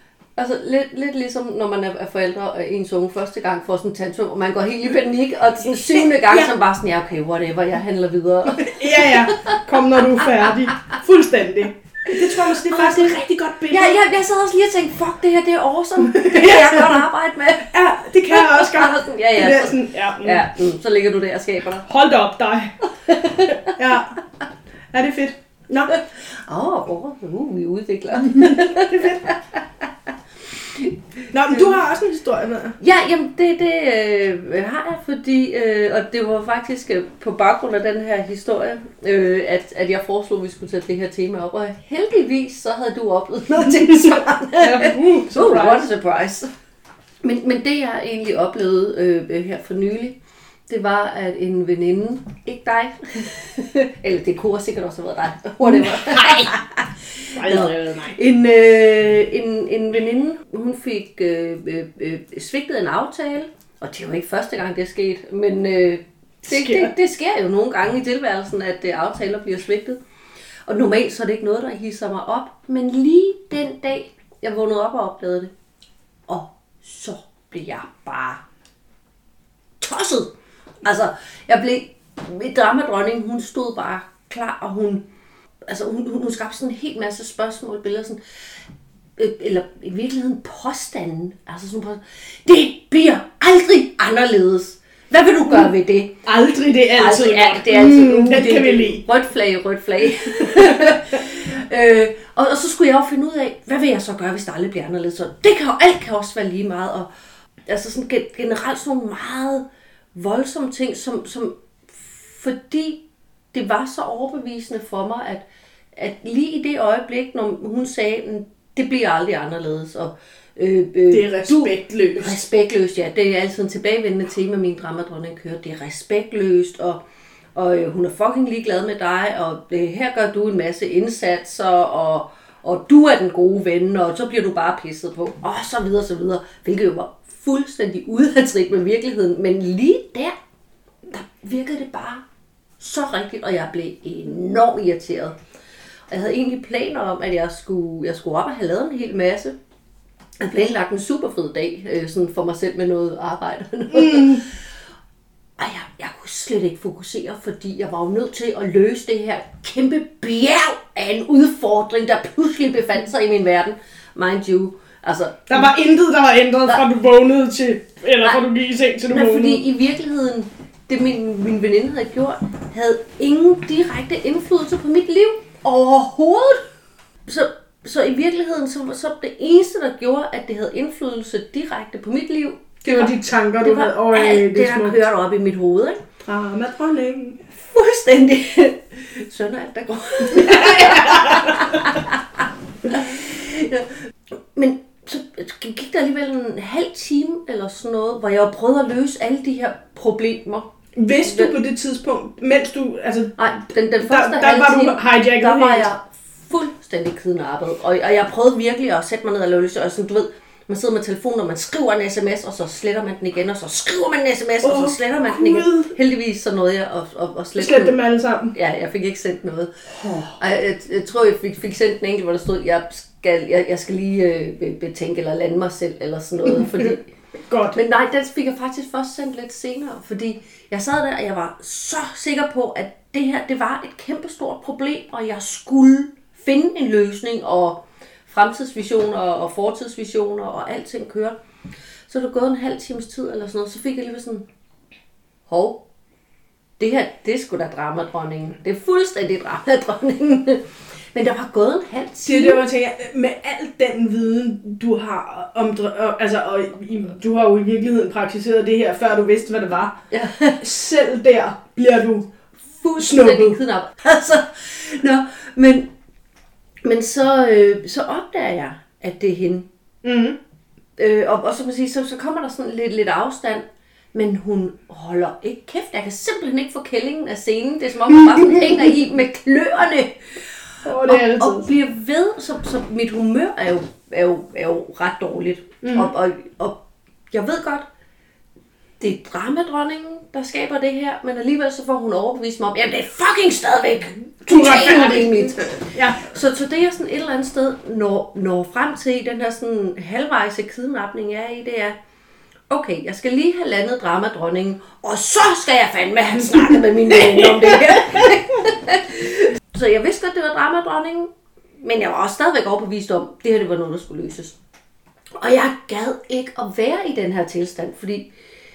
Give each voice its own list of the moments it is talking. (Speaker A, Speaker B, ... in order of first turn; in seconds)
Speaker A: 0.3-10.5, 12.4-21.9, 23.0-23.7, 25.9-29.6, 30.5-31.8, 32.8-46.5, 47.2-70.0, 70.7-75.5, 76.3-78.4, 79.8-80.3, 80.8-85.0, 85.7-88.2, 89.2-96.2, 96.9-107.1, 107.7-109.6, 110.1-113.0, 113.5-127.0, 127.5-140.3, 141.1-142.2, 142.8-145.3, 146.1-149.6, 150.4-154.6, 155.6-165.7, 169.1-176.6, 177.2-183.1, 183.6-186.0, 187.6-193.9, 194.5-200.7, 201.2-201.5, 203.4-218.0, 218.5-219.7, 220.4-227.1, 227.7-241.3, 242.1-244.4, 245.5-245.8, 246.8-252.6, 260.1-260.6, 262.7-265.9, 266.8-269.7, 271.0-273.6, 274.1-286.8, 287.3-287.9, 289.0-301.9, 302.7-311.3, 311.8-314.6, 315.4-318.3
Speaker B: 5.9-6.5, 8.5-14.0, 16.1-17.1, 17.7-20.4, 21.9-22.7, 23.7-24.2, 24.9-25.9, 28.2-29.2, 31.3-32.8, 43.9-45.9, 55.6-56.5, 57.3-58.2, 66.4-66.9, 95.5-95.7, 96.2-99.0, 121.1-122.4, 153.9-154.4, 165.5-169.6, 182.8-185.0, 186.2-187.4, 190.3-191.7, 200.9-203.3, 204.0-205.9, 214.6-215.9, 217.6-218.5, 220.0-220.3, 226.4-226.9, 227.5-227.8, 252.2-259.9, 260.6-262.3, 263.0-263.6, 270.0-270.4, 280.8-281.7, 285.8-286.1, 294.4-296.2, 307.4-308.3